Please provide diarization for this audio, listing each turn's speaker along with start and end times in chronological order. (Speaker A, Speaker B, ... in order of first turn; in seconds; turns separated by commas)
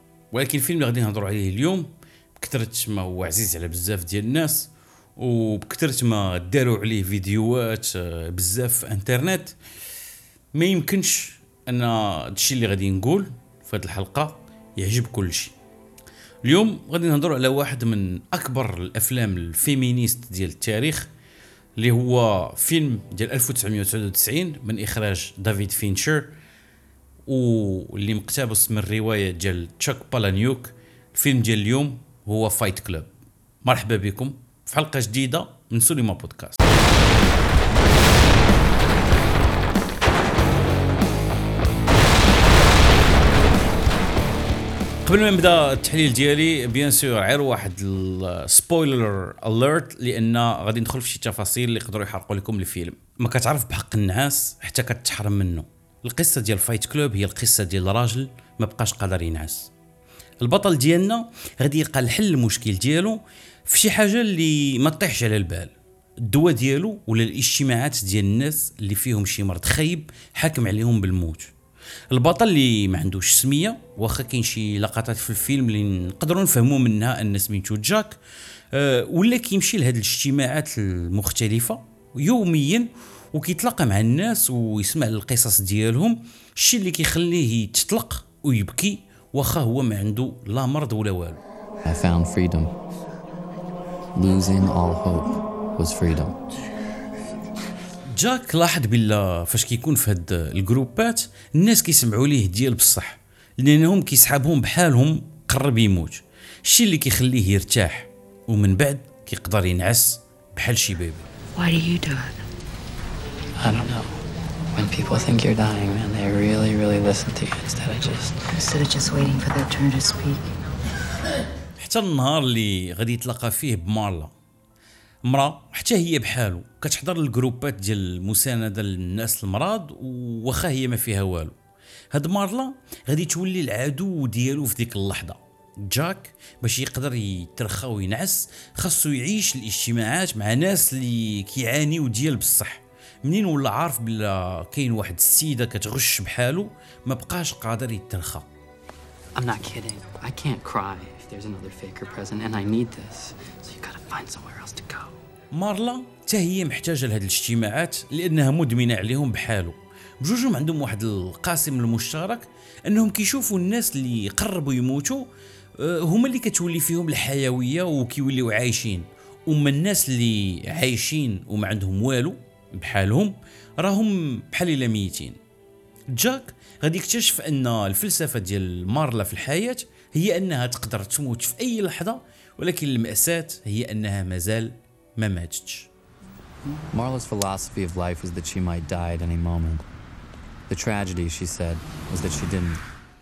Speaker A: 0.3-9.6, Speaker A: 10.5-15.5, Speaker A: 16.4-21.1, Speaker A: 21.8-26.3, Speaker A: 27.3-33.1, Speaker A: 33.6-36.6, Speaker A: 45.0-59.7, Speaker A: 60.4-65.7, Speaker A: 66.2-71.5, Speaker A: 72.1-78.2, Speaker A: 78.7-91.4, Speaker B: 91.9-92.7, Speaker B: 94.2-96.4, Speaker A: 98.1-111.3, Speaker C: 111.6-112.4, Speaker B: 113.6-114.2, Speaker B: 114.8-118.5, Speaker C: 118.5-120.5, Speaker A: 121.8-124.3, Speaker A: 125.2-131.6, Speaker A: 132.1-148.5, Speaker B: 149.3-155.1, Speaker A: 155.5-175.4, Speaker A: 176.1-185.9, Speaker B: 186.9-189.8, Speaker B: 190.7-192.8